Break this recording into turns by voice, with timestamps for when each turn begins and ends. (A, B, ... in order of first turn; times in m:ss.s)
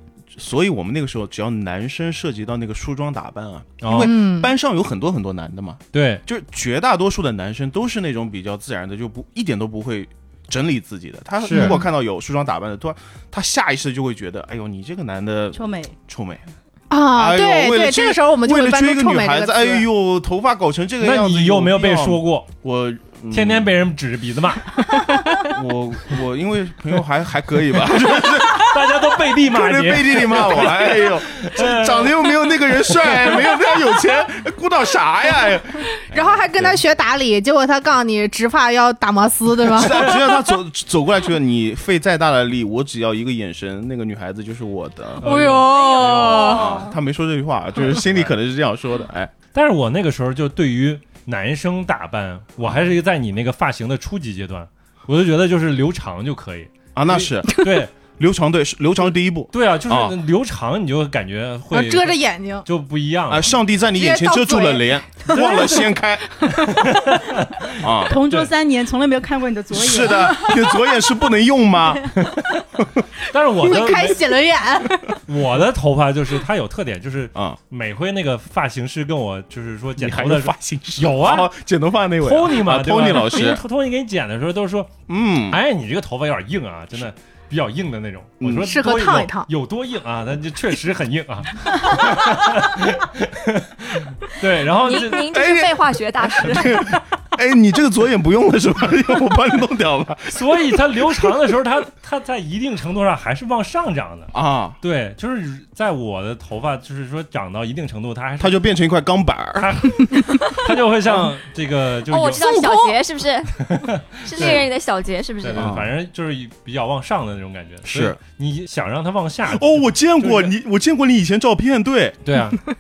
0:00.3-0:16.4 A
0:03.8-0:04.2 B
0:03.9-0:04.5 C
0:05.9-0:06.2 B
0:11.4-0:11.8 B
0:11.4-0:11.8 C
0:15.5-0:16.0 D
0:16.9-0:19.9 C
0:17.1-0:23.8 A
0:21.0-0:22.5 B
0:23.3-0:25.2 B
0:25.4-0:36.4 A
0:28.5-0:33.2 B
0:36.1-0:40.2 C
0:36.1-0:36.8 B
0:39.7-0:45.3 A
0:45.2-0:46.8 B
0:45.2-0:46.8 C
0:45.7-0:46.8 E
0:46.4-0:49.3 A
0:47.9-0:48.3 B
0:49.5-0:58.0 B
0:52.6-0:52.9 A
0:57.0-1:00.2 A
0:59.5-1:03.5 B
1:01.7-1:02.7 C
1:03.3-1:06.6 A
1:04.0-1:05.9 C
1:05.3-1:05.7 B
1:06.4-1:06.8 C
1:06.7-1:08.5 B
1:07.8-1:08.2 A
1:08.1-1:10.6 D
1:09.7-1:12.2 A
1:13.3-1:14.3 B
1:13.6-1:15.2 C
1:15.3-1:21.5 B
1:20.0-1:23.6 A
1:22.2-1:24.9 B
1:25.1-1:25.6 A
1:25.5-1:35.3 B
1:28.4-1:28.7 A
1:28.6-1:29.5 C
1:34.8-1:37.0 E
1:35.3-1:41.3 A
1:40.3-1:48.6 B
1:44.3-1:44.8 A
1:48.4-1:49.8 A
1:49.6-1:52.4 B
1:51.0-1:51.3 A
1:52.1-1:53.6 E
1:52.4-1:53.0 C
1:53.7-1:54.7 B
1:54.2-1:55.7 E
1:55.4-2:00.5 B
1:55.6-1:55.9 A
1:57.9-1:58.2 A
1:59.5-2:02.2 A
2:02.3-2:02.6 B